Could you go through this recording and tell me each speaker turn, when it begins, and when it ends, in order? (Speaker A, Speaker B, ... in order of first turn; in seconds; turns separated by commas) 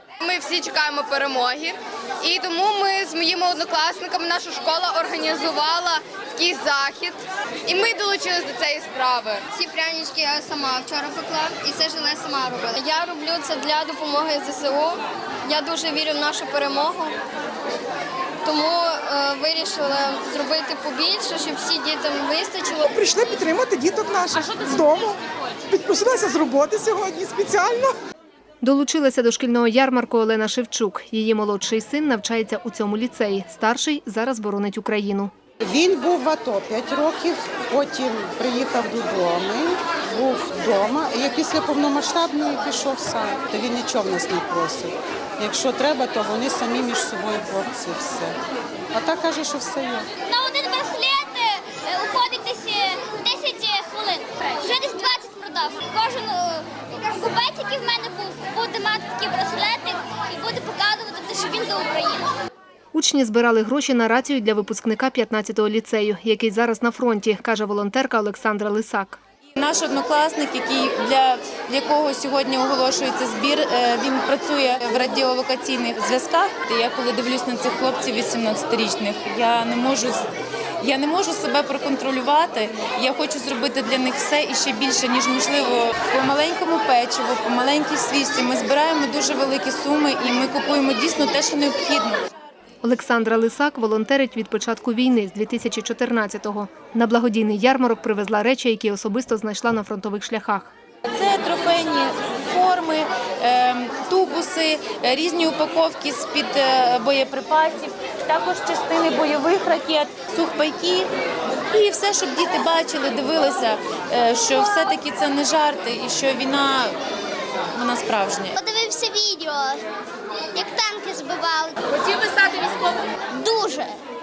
Speaker A: 0.2-7.2, Speaker A: 7.7-9.4, Speaker B: 9.5-17.2, Speaker B: 18.4-22.9, Speaker C: 22.9-25.2, Speaker C: 25.7-27.9, Speaker D: 28.6-35.3, Speaker E: 35.6-48.4, Speaker E: 48.9-50.1, Speaker F: 50.2-62.3, Speaker D: 62.9-69.2, Speaker G: 69.6-80.2, Speaker G: 80.8-92.2, Speaker D: 92.8-100.7, Speaker G: 101.1-111.1, Speaker G: 111.7-117.0, Speaker G: 117.7-118.6, Speaker F: 118.6-119.8, Speaker F: 120.5-124.0